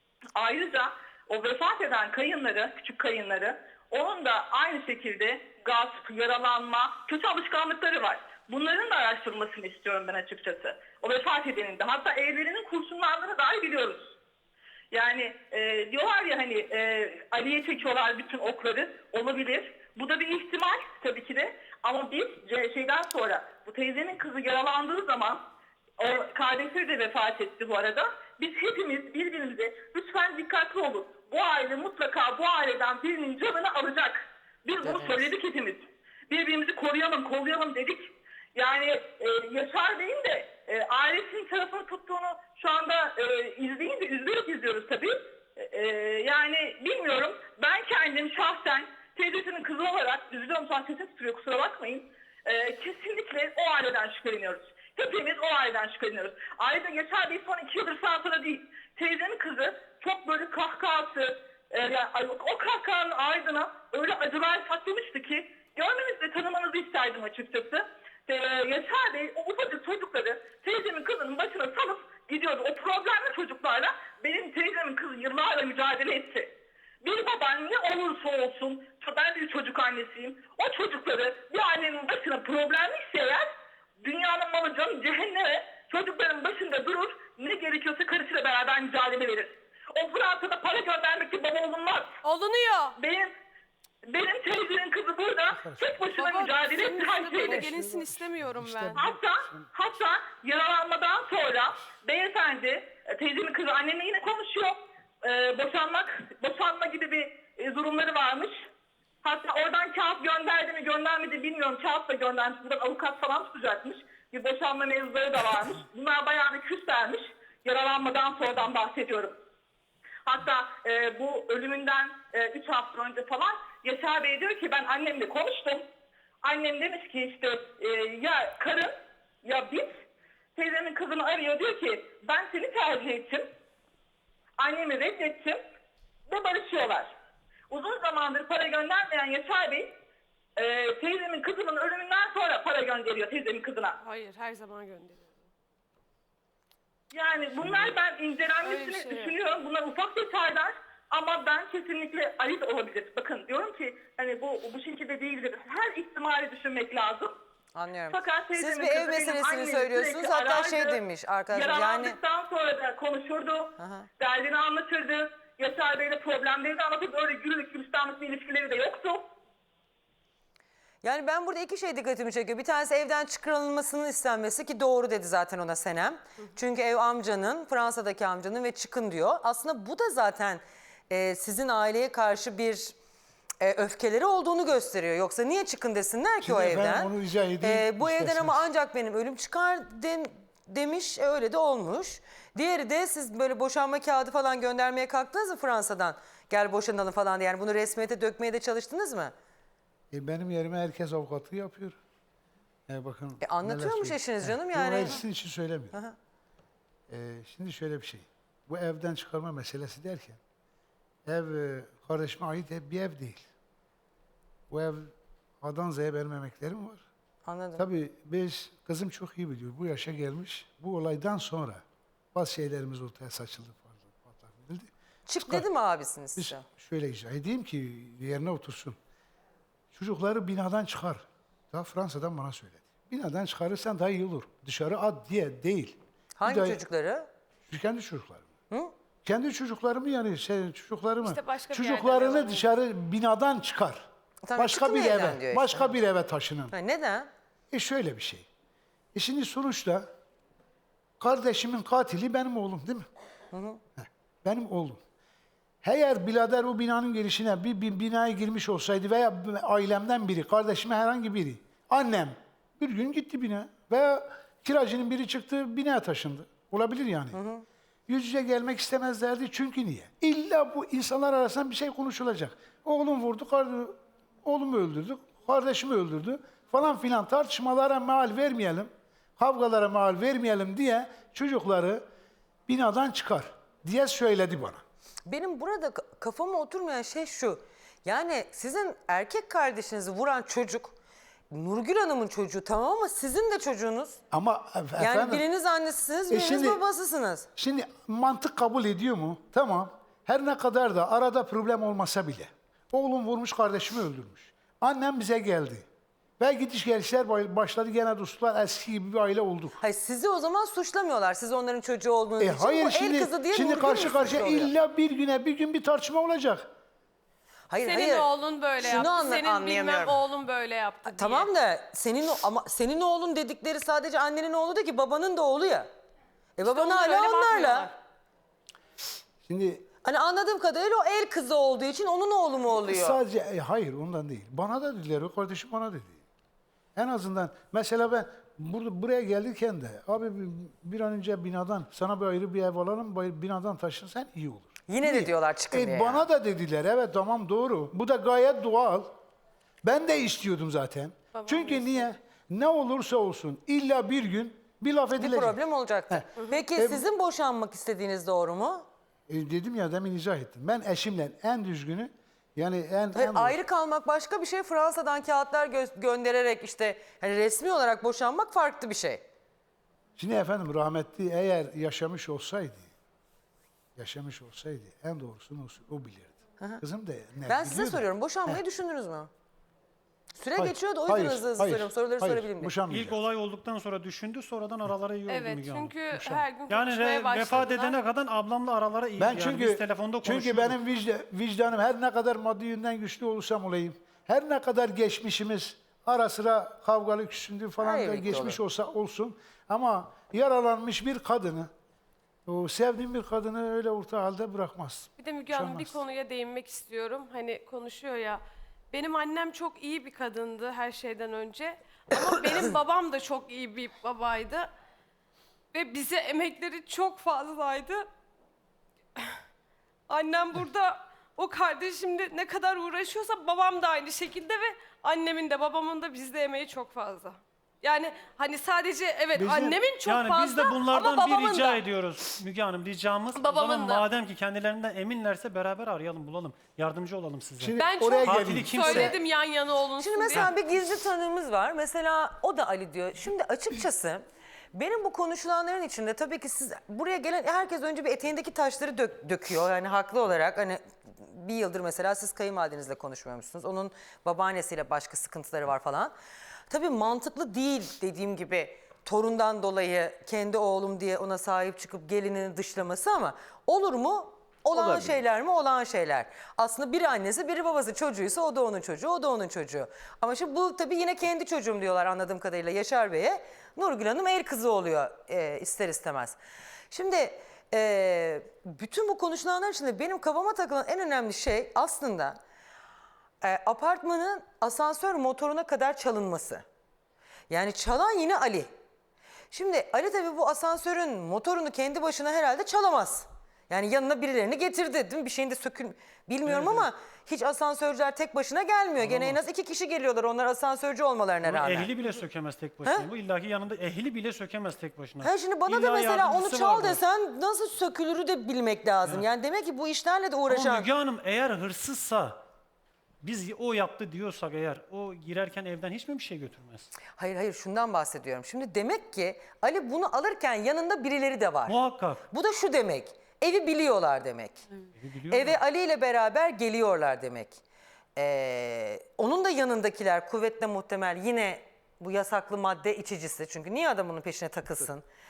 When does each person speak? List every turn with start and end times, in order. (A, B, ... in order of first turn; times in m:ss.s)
0:00.4-0:14.0 A
0:14.9-0:25.4 A
0:26.0-0:38.0 A
0:34.8-0:35.2 B
0:38.5-1:16.5 A
1:17.0-1:23.4 A
1:24.0-1:32.1 A
1:32.2-1:32.9 C
1:33.0-1:33.3 A
1:34.1-1:37.6 A
1:35.6-1:35.8 D
1:36.1-1:39.0 C
1:37.4-1:39.7 D
1:39.0-1:48.5 A
1:49.2-1:59.3 A
2:00.2-2:05.8 A
2:06.4-2:08.9 A
2:09.4-2:09.9 A
2:10.6-2:13.4 A
2:14.6-2:15.6 A
2:16.3-2:17.1 A
2:17.7-2:19.8 A
2:20.6-2:24.0 A
2:24.0-2:25.4 C
2:27.1-2:37.3 A
2:28.6-2:29.3 C
2:37.7-2:42.2 B
2:38.1-2:41.0 A
2:41.5-2:49.2 A
2:43.8-2:44.1 B
2:51.0-3:02.9 B
3:03.6-3:07.1 B
3:06.4-3:08.6 D
3:07.6-3:19.3 B
3:20.1-3:22.0 D
3:22.9-3:26.0 D
3:23.4-3:25.2 B
3:27.1-3:30.4 D
3:31.2-3:33.4 D
3:34.7-3:37.0 D
3:37.4-3:37.8 B
3:37.8-3:41.8 D
3:42.3-3:45.6 D
3:45.3-3:46.6 B
3:46.4-3:49.0 D
3:49.9-3:56.8 D
3:56.4-3:57.2 B
3:57.7-3:58.5 D
3:59.2-4:06.7 D
4:01.2-4:02.7 C
4:04.4-4:05.9 B
4:06.7-4:07.3 B
4:07.7-4:08.5 D
4:09.1-4:10.1 D
4:11.2-4:13.1 D
4:13.5-4:13.8 B
4:14.0-4:15.0 D
4:15.8-4:27.4 D
4:27.4-4:27.6 B
4:28.1-4:42.0 D
4:42.7-4:44.8 D
4:45.2-4:50.9 B
4:51.5-4:54.2 B
4:54.3-4:55.4 D
4:55.0-4:57.4 B
4:56.3-4:56.8 D
4:57.6-5:05.9 D
5:06.4-5:09.8 D
5:09.8-5:14.7 B
5:12.4-5:16.7 D
5:17.7-5:18.3 B
5:17.8-5:21.5 C
5:18.8-5:20.2 B
5:21.1-5:25.9 B
5:26.6-5:27.9 B
5:26.6-5:27.9 C
5:29.4-5:29.8 D
5:30.0-5:33.2 B
5:32.8-5:36.2 D
5:37.0-5:49.1 D
5:44.9-5:46.2 B
5:49.8-5:55.6 D
5:51.3-5:52.1 C
5:55.2-5:58.8 B
5:56.1-5:57.0 D
5:59.3-6:03.6 D
6:03.1-6:09.2 B
6:10.2-6:12.9 D
6:14.0-6:18.6 D
6:17.5-6:19.3 B
6:20.4-6:22.8 B
6:20.5-6:23.2 D
6:22.8-6:30.8 E
6:25.3-6:28.0 C
6:29.2-6:41.7 D
6:37.8-6:38.6 B
6:42.4-6:46.0 D
6:45.2-6:54.7 C
6:55.7-6:58.0 C
7:00.1-7:11.8 C
7:09.3-7:09.8 D
7:10.0-7:19.1 E
7:13.3-7:14.1 C
7:17.6-7:19.1 D
7:17.7-7:20.5 C
7:20.0-7:24.2 B
7:24.7-7:30.8 B
7:31.3-7:36.1 B
7:36.7-7:56.4 B
7:56.9-8:02.4 B
8:03.4-8:06.6 B
8:07.5-8:08.7 B
8:09.5-8:21.9 B
8:16.4-8:16.8 E
8:19.0-8:19.4 E
8:21.4-8:27.0 E
8:25.2-8:30.9 B
8:30.5-8:32.4 E
8:33.2-8:36.9 E
8:37.1-8:41.8 B
8:41.6-8:42.2 E
8:42.3-8:44.6 B
8:44.9-8:45.6 E
8:45.3-8:47.6 B
8:48.2-8:55.0 B